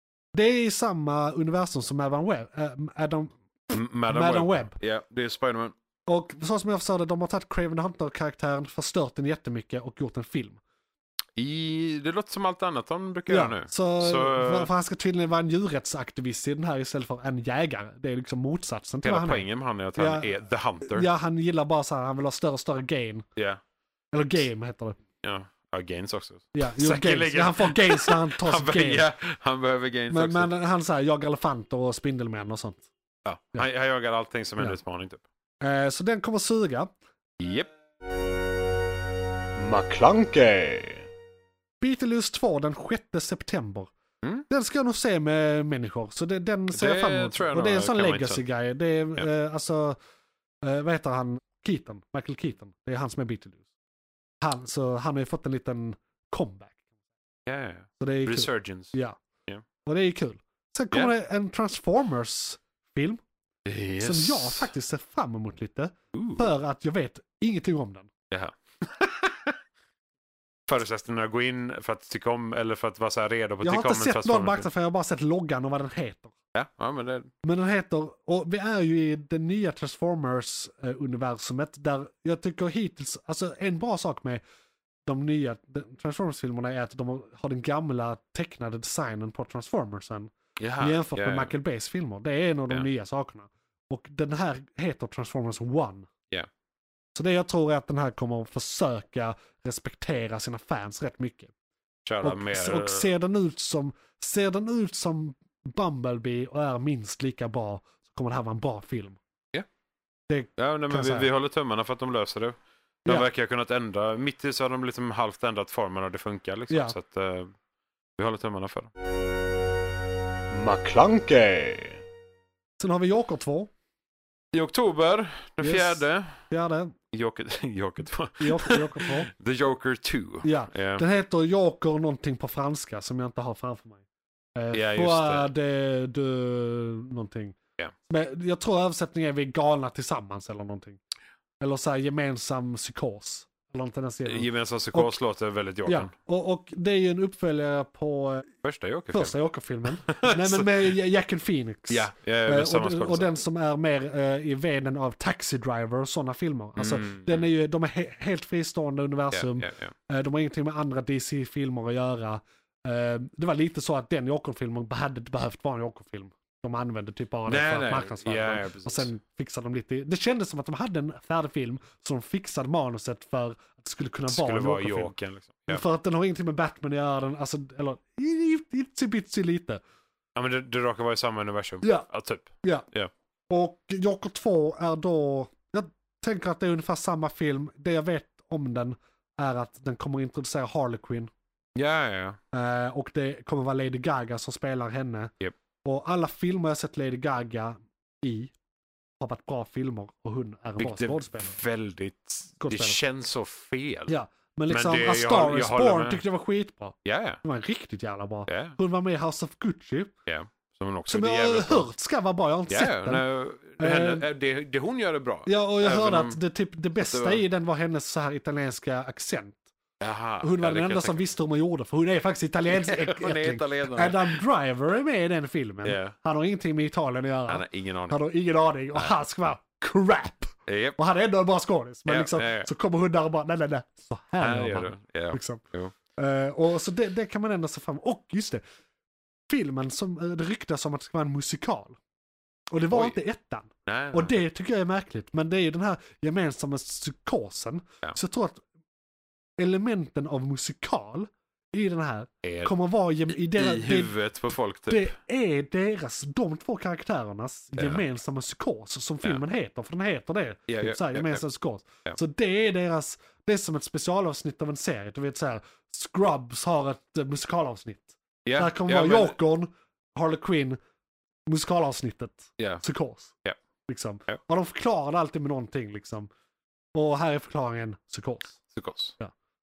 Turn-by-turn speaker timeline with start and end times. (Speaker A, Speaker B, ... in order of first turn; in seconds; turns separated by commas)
Speaker A: 0.3-4.8, Speaker B: 3.7-5.8, Speaker A: 6.1-10.6, Speaker B: 11.4-14.7, Speaker A: 13.3-20.3, Speaker B: 19.0-21.1, Speaker A: 20.8-23.3, Speaker A: 24.1-25.0, Speaker B: 25.2-30.5, Speaker A: 26.5-29.1, Speaker A: 30.1-32.9, Speaker B: 33.2-35.2, Speaker A: 35.6-36.9, Speaker B: 37.4-37.7, Speaker C: 39.6-41.1, Speaker A: 41.8-43.9, Speaker A: 44.5-50.0, Speaker B: 46.7-48.4, Speaker A: 50.6-53.6, Speaker A: 54.4-56.8, Speaker B: 57.5-59.0, Speaker A: 58.0-59.2, Speaker A: 59.8-63.2, Speaker B: 63.6-64.7, Speaker A: 64.0-68.1, Speaker B: 66.1-66.5, Speaker B: 68.3-69.5, Speaker B: 70.7-74.7, Speaker A: 73.6-76.3, Speaker B: 76.5-77.3, Speaker A: 77.4-84.4, Speaker A: 85.1-96.1, Speaker B: 90.6-91.5, Speaker A: 97.2-101.5, Speaker B: 102.1-103.1, Speaker A: 102.2-109.2, Speaker A: 110.3-111.3, Speaker B: 110.6-117.5, Speaker A: 116.7-117.0, Speaker B: 118.2-118.9, Speaker C: 120.5-122.0, Speaker A: 122.8-123.7, Speaker B: 124.5-126.4, Speaker A: 125.6-127.0, Speaker B: 127.1-131.0, Speaker A: 128.4-129.3, Speaker A: 130.4-134.0, Speaker A: 134.6-137.6, Speaker B: 134.7-135.5, Speaker A: 138.1-141.0, Speaker A: 141.6-145.2, Speaker B: 144.3-146.1, Speaker A: 145.9-148.5, Speaker B: 148.6-149.3, Speaker A: 149.1-175.1, Speaker B: 150.1-150.8, Speaker B: 151.9-153.3, Speaker B: 156.8-157.5, Speaker B: 159.3-159.9, Speaker B: 167.5-169.1, Speaker B: 174.3-175.8, Speaker A: 175.7-179.8, Speaker B: 180.4-183.1, Speaker A: 181.8-182.1, Speaker A: 183.5-191.3, Speaker B: 191.8-192.4, Speaker A: 192.5-195.3, Speaker A: 195.8-198.5, Speaker A: 199.2-201.6, Speaker B: 200.8-204.1, Speaker A: 202.6-203.0, Speaker A: 204.1-210.1, Speaker B: 204.7-206.2, Speaker B: 207.1-207.4, Speaker B: 208.5-208.8, Speaker B: 210.3-211.9, Speaker A: 211.1-213.2, Speaker B: 212.7-216.4, Speaker A: 213.8-214.3, Speaker A: 215.5-219.6, Speaker B: 217.0-217.4, Speaker B: 220.0-221.3, Speaker A: 220.4-235.6, Speaker B: 222.7-224.4, Speaker B: 225.8-226.1, Speaker B: 227.5-228.2, Speaker B: 230.7-231.0, Speaker B: 232.1-232.7, Speaker B: 234.4-235.9, Speaker A: 236.2-238.6, Speaker A: 239.5-242.0, Speaker A: 242.7-248.6, Speaker B: 242.9-243.2, Speaker B: 243.9-244.4, Speaker A: 249.6-254.2, Speaker B: 252.4-252.7, Speaker B: 253.3-255.1, Speaker A: 254.9-270.8, Speaker B: 257.8-258.0, Speaker B: 260.7-261.4, Speaker B: 268.4-269.4, Speaker A: 271.5-273.3, Speaker B: 272.6-272.8, Speaker A: 273.9-276.3, Speaker A: 276.9-278.6, Speaker B: 278.7-279.1